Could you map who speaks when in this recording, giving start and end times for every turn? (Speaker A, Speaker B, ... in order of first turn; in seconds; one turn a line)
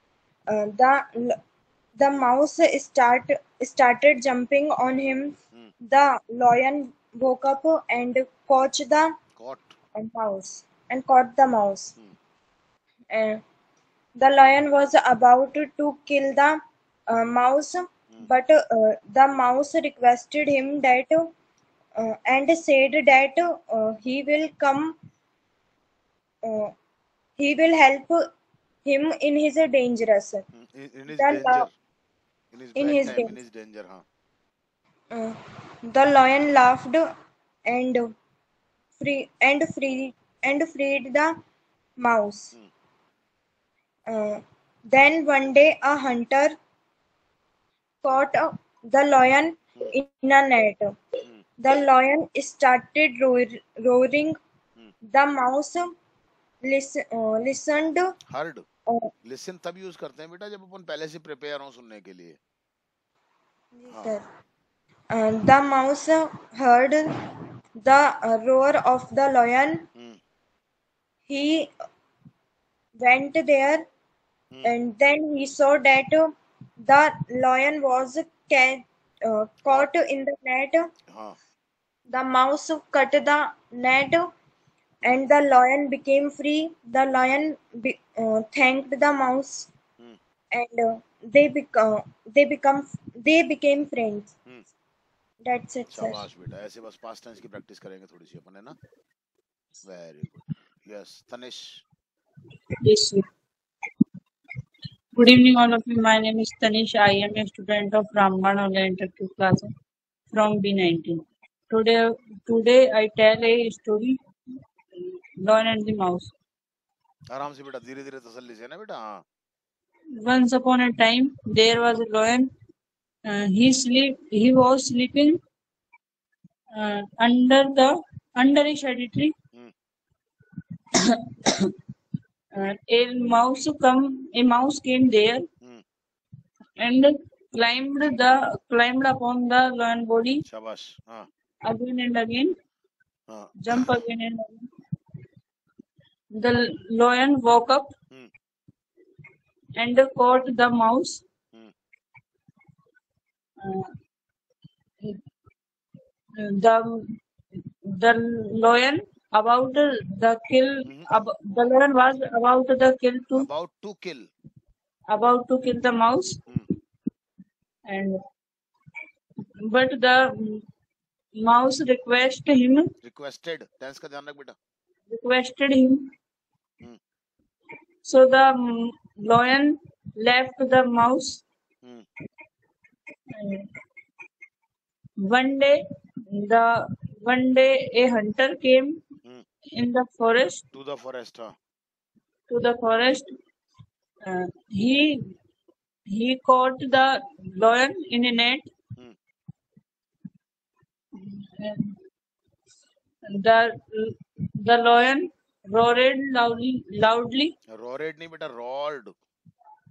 Speaker A: 0.5-1.4
Speaker A: 2.0-9.2
Speaker B: 9.4-9.8
Speaker A: 9.9-11.9
Speaker A: 13.1-13.4
Speaker A: 14.2-21.3
Speaker A: 22.0-24.9
Speaker A: 26.4-26.7
Speaker A: 27.4-28.2
Speaker A: 28.8-30.4
Speaker B: 30.5-31.7
Speaker A: 31.1-31.7
Speaker B: 32.5-34.0
Speaker A: 32.8-33.4
Speaker A: 35.1-37.1
Speaker A: 37.7-38.1
Speaker A: 39.0-41.4
Speaker A: 42.0-42.5
Speaker A: 44.1-46.6
Speaker A: 48.0-51.0
Speaker A: 51.6-54.4
Speaker A: 55.1-55.9
Speaker A: 56.6-58.1
Speaker B: 58.3-58.6
Speaker B: 59.2-62.4
Speaker A: 63.8-64.2
Speaker B: 63.9-64.2
Speaker A: 65.1-67.1
Speaker A: 67.8-69.8
Speaker A: 71.3-71.7
Speaker A: 73.0-73.8
Speaker B: 74.5-74.8
Speaker A: 74.6-80.9
Speaker B: 81.1-81.3
Speaker A: 82.1-84.3
Speaker A: 85.0-89.7
Speaker A: 90.5-94.3
Speaker A: 95.4-96.2
Speaker B: 95.9-98.8
Speaker B: 99.8-101.8
Speaker C: 102.8-103.2
Speaker C: 105.1-109.7
Speaker C: 110.3-114.2
Speaker C: 115.4-116.3
Speaker B: 117.3-119.2
Speaker C: 120.2-122.5
Speaker C: 123.3-125.4
Speaker C: 126.7-129.3
Speaker C: 131.1-131.7
Speaker C: 132.6-135.4
Speaker C: 136.8-140.4
Speaker B: 140.4-141.3
Speaker C: 141.7-142.6
Speaker B: 143.3-144.0
Speaker C: 143.6-144.7
Speaker C: 146.3-147.9
Speaker C: 149.8-151.2
Speaker C: 153.6-153.9
Speaker C: 156.4-157.1
Speaker C: 157.9-163.5
Speaker B: 160.8-161.1
Speaker B: 163.3-164.3
Speaker C: 165.1-166.4
Speaker C: 167.9-168.2
Speaker C: 169.7-170.6
Speaker C: 171.4-172.9
Speaker B: 173.0-174.6
Speaker C: 175.1-176.1
Speaker C: 178.1-181.4
Speaker C: 183.3-183.7
Speaker C: 185.2-185.8
Speaker C: 186.3-186.7
Speaker C: 187.2-189.0
Speaker C: 189.7-190.6
Speaker B: 190.7-191.6
Speaker C: 192.5-193.3
Speaker C: 194.2-195.2
Speaker C: 196.1-198.7
Speaker C: 201.2-202.0
Speaker C: 203.3-207.5
Speaker B: 207.7-209.1